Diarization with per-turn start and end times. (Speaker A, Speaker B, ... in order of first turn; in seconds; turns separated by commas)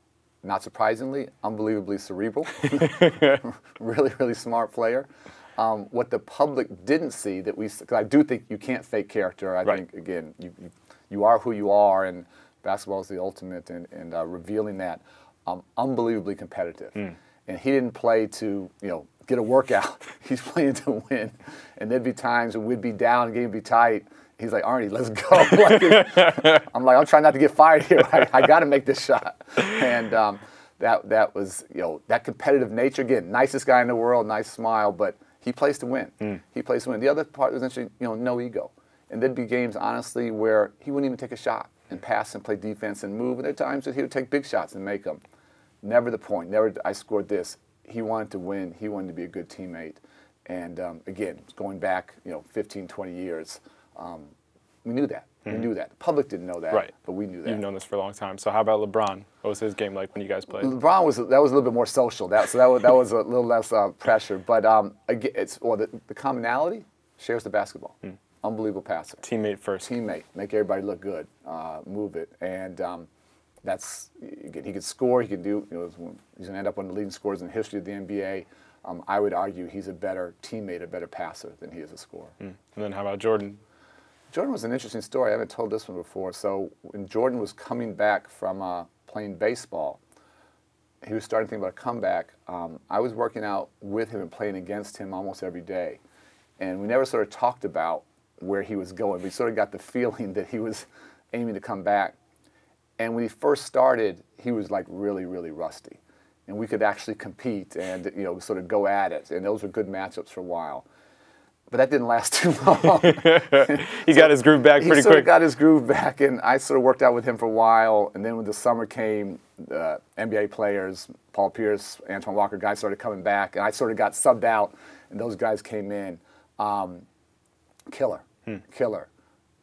Speaker A: 0.4-45.2, Speaker A: 45.8-54.3, Speaker A: 54.8-57.6, Speaker B: 57.4-60.7, Speaker A: 60.5-69.2, Speaker B: 69.2-69.9, Speaker A: 69.8-73.1, Speaker A: 73.6-82.3, Speaker B: 82.4-83.6, Speaker A: 84.3-90.0, Speaker A: 91.0-96.0, Speaker A: 96.6-102.2, Speaker A: 103.0-110.8, Speaker A: 111.7-127.0, Speaker B: 113.0-115.3, Speaker A: 127.9-129.1